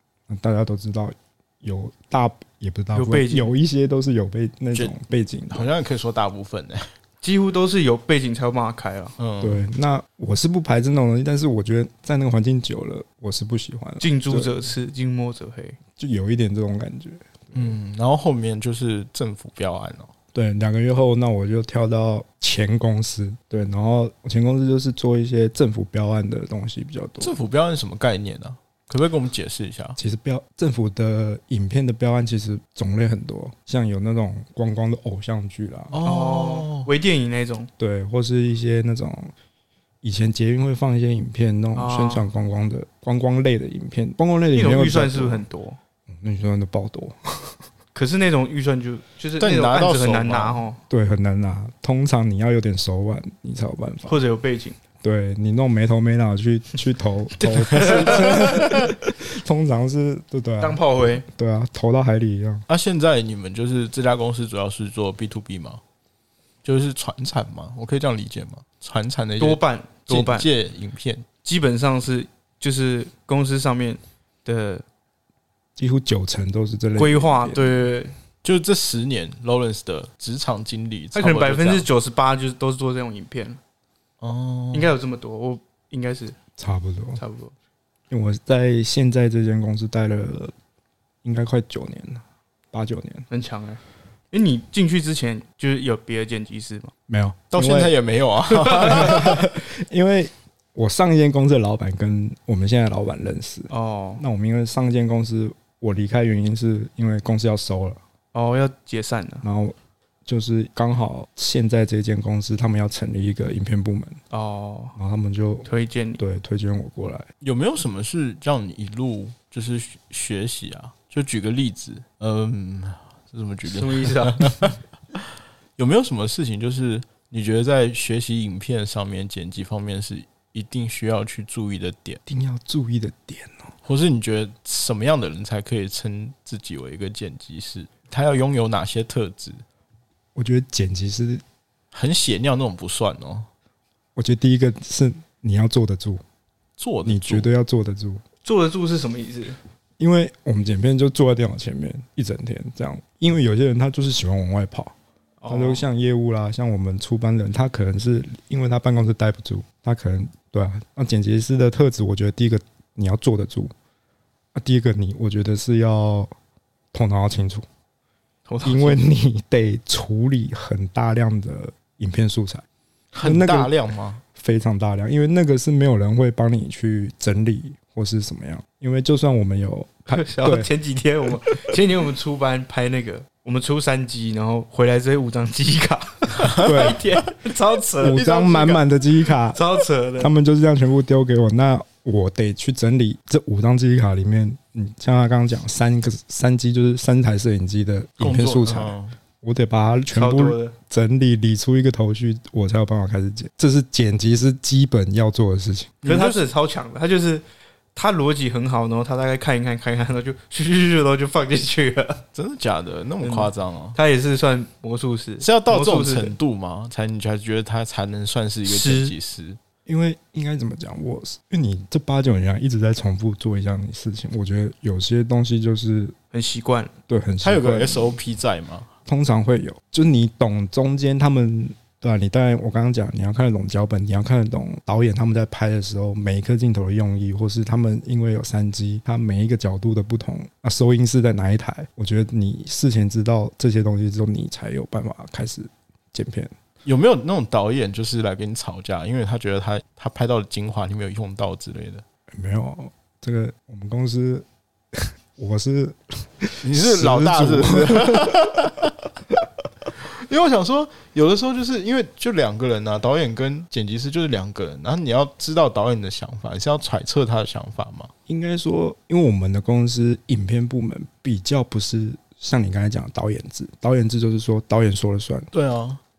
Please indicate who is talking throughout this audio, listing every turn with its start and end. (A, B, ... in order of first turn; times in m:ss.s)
0:00.3-0:05.7 A
0:02.9-0:03.5 B
0:05.5-0:06.9 C
0:07.2-0:09.2 B
0:09.2-0:09.6 C
0:09.4-0:14.6 A
0:14.0-0:15.8 B
0:16.0-0:17.8 A
0:17.5-0:20.1 C
0:20.3-0:27.4 A
0:27.2-0:30.0 C
0:30.0-0:36.0 A
0:35.9-0:36.9 C
0:36.0-0:37.7 B
0:37.8-0:39.3 A
0:40.0-0:45.5 A
0:41.7-0:42.3 B
0:44.5-0:45.8 B
0:46.1-0:47.6 A
0:47.9-0:50.8 B
0:49.4-0:50.6 C
0:50.9-0:54.2 A
0:54.1-0:54.8 B
0:55.0-1:02.6 A
0:57.4-0:58.9 C
0:57.8-0:58.1 B
1:00.6-1:01.2 B
1:02.7-1:05.8 C
1:06.6-1:11.2 C
1:09.4-1:10.5 B
1:11.4-1:14.8 B
1:15.8-1:17.8 A
1:17.0-1:18.1 B
1:18.4-1:21.9 C
1:21.1-1:23.6 B
1:24.2-1:24.9 C
1:24.7-1:26.4 B
1:26.6-1:27.2 A
1:27.2-1:27.5 B
1:28.1-1:30.5 A
1:31.2-1:33.3 A
1:33.3-1:33.8 B
1:34.3-1:36.9 B
1:37.1-1:37.9 A
1:37.5-1:39.4 C
1:38.7-1:48.0 A
1:43.7-1:44.2 B
1:48.3-1:49.4 B
1:49.4-1:54.2 A
1:54.3-1:54.9 B
1:55.0-1:57.3 A
1:55.6-1:56.2 B
1:57.4-2:05.2 C
2:03.6-2:04.7 B
2:05.8-2:12.2 C
2:12.3-2:13.7 A
2:13.8-2:19.6 C
2:20.3-2:21.4 A
2:21.9-2:23.5 C
2:24.2-2:26.2 A
2:26.8-2:27.5 C
2:27.0-2:28.2 A
2:28.4-2:29.6 B
2:30.0-2:34.9 A
2:35.4-2:35.8 B
2:35.5-2:43.7 A
2:44.5-2:46.3 A
2:46.9-2:47.6 A
2:48.5-2:49.0 B
2:48.6-2:52.6 A
2:53.1-2:54.2 C
2:53.2-2:53.7 A
2:54.3-3:00.7 A
3:00.1-3:08.8 B
3:06.4-3:06.9 C
3:06.6-3:07.0 A
3:08.0-3:09.6 A
3:09.5-3:10.3 B
3:10.2-3:26.0 A
3:18.2-3:19.2 C
3:20.1-3:20.8 B
3:26.0-3:26.4 C
3:26.0-3:27.4 B
3:27.9-3:32.2 B
3:32.3-3:34.0 C
3:33.2-3:36.3 B
3:35.4-3:39.6 C
3:38.6-3:39.1 B
3:39.8-3:46.2 A
3:46.3-3:46.9 B
3:47.1-3:48.2 A
3:47.4-3:48.9 C
3:49.1-4:06.5 A
4:06.8-4:12.0 C
4:12.3-4:18.7 A
4:16.6-4:18.9 C
4:20.0-4:28.1 C
4:28.3-4:35.5 A
4:35.5-4:36.0 C